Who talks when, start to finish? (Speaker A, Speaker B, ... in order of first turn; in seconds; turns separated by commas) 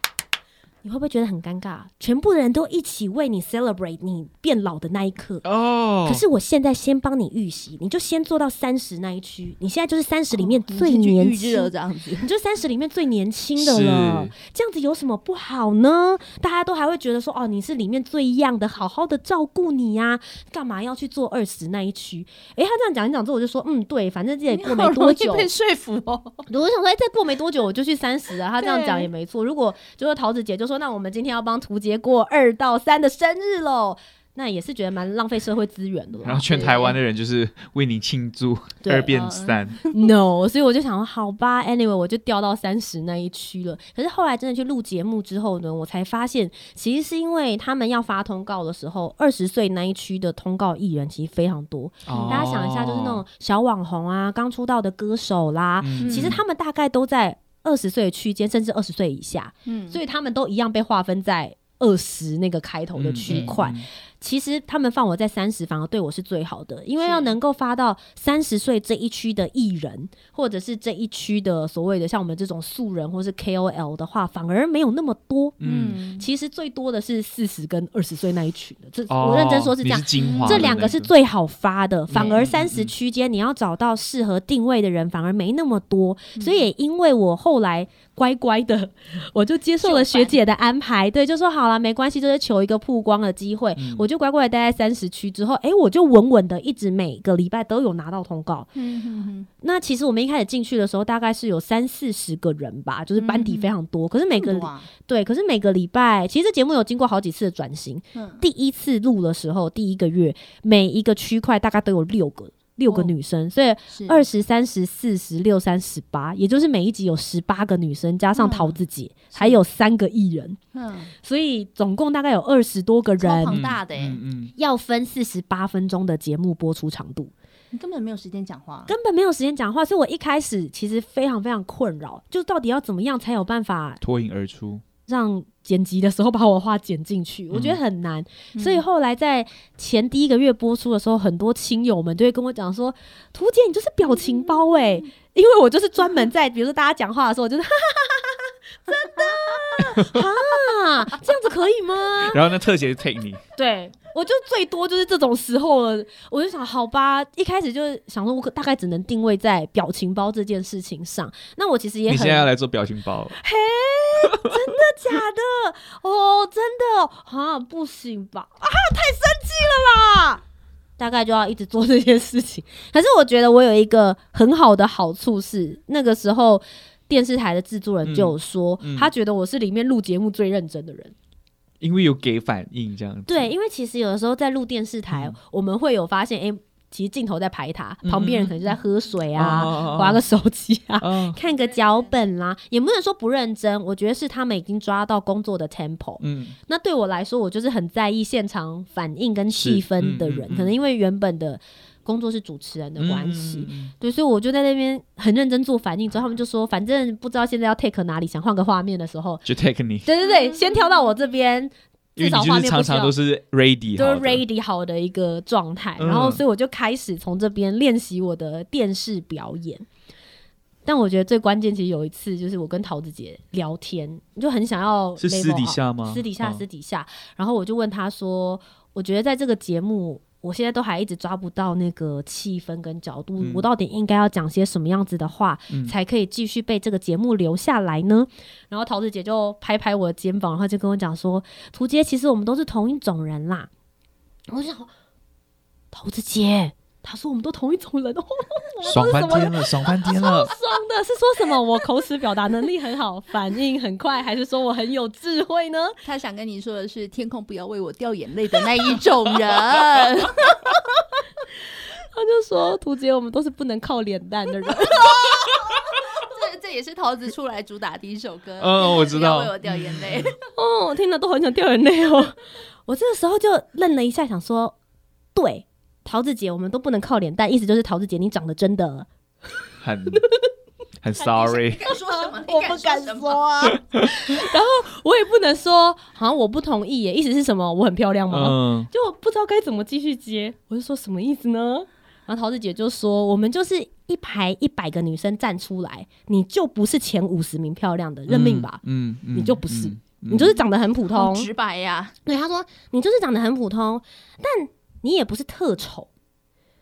Speaker A: 0.8-5.5, Speaker B: 5.4-6.2, Speaker A: 6.0-11.7, Speaker C: 10.3-12.3, Speaker A: 12.2-25.5, Speaker B: 13.6-14.3, Speaker C: 24.5-26.4, Speaker A: 26.5-36.9, Speaker C: 28.6-29.1, Speaker B: 36.2-39.8, Speaker C: 36.5-36.9, Speaker A: 38.8-39.1, Speaker C: 39.1-40.1, Speaker A: 39.9-75.6, Speaker B: 52.0-53.2, Speaker C: 52.1-52.5, Speaker B: 55.8-56.4, Speaker C: 56.0-56.4, Speaker C: 59.6-60.0, Speaker B: 63.0-63.9, Speaker C: 63.3-63.6, Speaker C: 67.0-67.3, Speaker B: 75.6-76.0, Speaker C: 75.6-76.3, Speaker A: 76.2-98.7, Speaker B: 79.1-81.1, Speaker C: 80.2-80.7, Speaker B: 82.1-82.9, Speaker C: 82.1-82.4, Speaker C: 86.3-86.7, Speaker C: 89.8-90.4, Speaker B: 93.8-94.0, Speaker C: 98.7-99.5, Speaker A: 99.6-120.6, Speaker C: 103.2-103.7, Speaker C: 104.3-104.9, Speaker C: 108.1-108.4, Speaker C: 112.9-113.1, Speaker C: 113.9-114.2, Speaker C: 118.3-118.8, Speaker C: 119.3-119.6, Speaker C: 120.7-121.1, Speaker A: 121.2-123.6, Speaker C: 123.2-124.2, Speaker B: 123.5-124.5, Speaker A: 124.5-127.3, Speaker C: 127.7-128.9, Speaker A: 128.9-134.0, Speaker B: 134.0-134.8, Speaker A: 135.1-152.4, Speaker B: 137.5-137.8, Speaker C: 138.5-138.8, Speaker C: 144.1-145.0, Speaker B: 149.8-150.2, Speaker B: 152.2-153.4, Speaker A: 153.6-162.5, Speaker B: 162.1-163.3, Speaker A: 163.3-170.4, Speaker A: 171.0-181.1, Speaker B: 178.0-179.1, Speaker B: 181.8-183.5, Speaker A: 183.3-209.4, Speaker B: 185.1-185.3, Speaker B: 188.0-188.7, Speaker B: 189.3-190.2, Speaker B: 191.0-191.4, Speaker B: 196.2-196.5, Speaker B: 199.5-200.7, Speaker B: 203.0-203.9, Speaker B: 209.4-210.1, Speaker A: 210.0-213.1, Speaker C: 210.2-210.9, Speaker B: 212.2-214.4, Speaker A: 213.9-219.8, Speaker B: 216.0-216.4, Speaker A: 220.8-243.7, Speaker B: 225.2-226.6, Speaker B: 233.4-233.7, Speaker B: 235.7-235.9, Speaker A: 244.5-244.9, Speaker A: 245.9-256.0, Speaker B: 248.8-250.5, Speaker C: 256.0-260.6, Speaker A: 262.1-265.3, Speaker C: 264.9-270.4, Speaker B: 268.6-270.3, Speaker A: 270.5-274.8, Speaker A: 275.3-279.1, Speaker B: 279.8-280.2, Speaker A: 280.1-280.4, Speaker B: 281.0-281.8, Speaker C: 281.3-283.5, Speaker A: 281.9-298.8, Speaker B: 288.3-288.9, Speaker B: 298.3-300.5, Speaker A: 299.3-301.5, Speaker C: 301.1-302.1, Speaker A: 302.2-306.1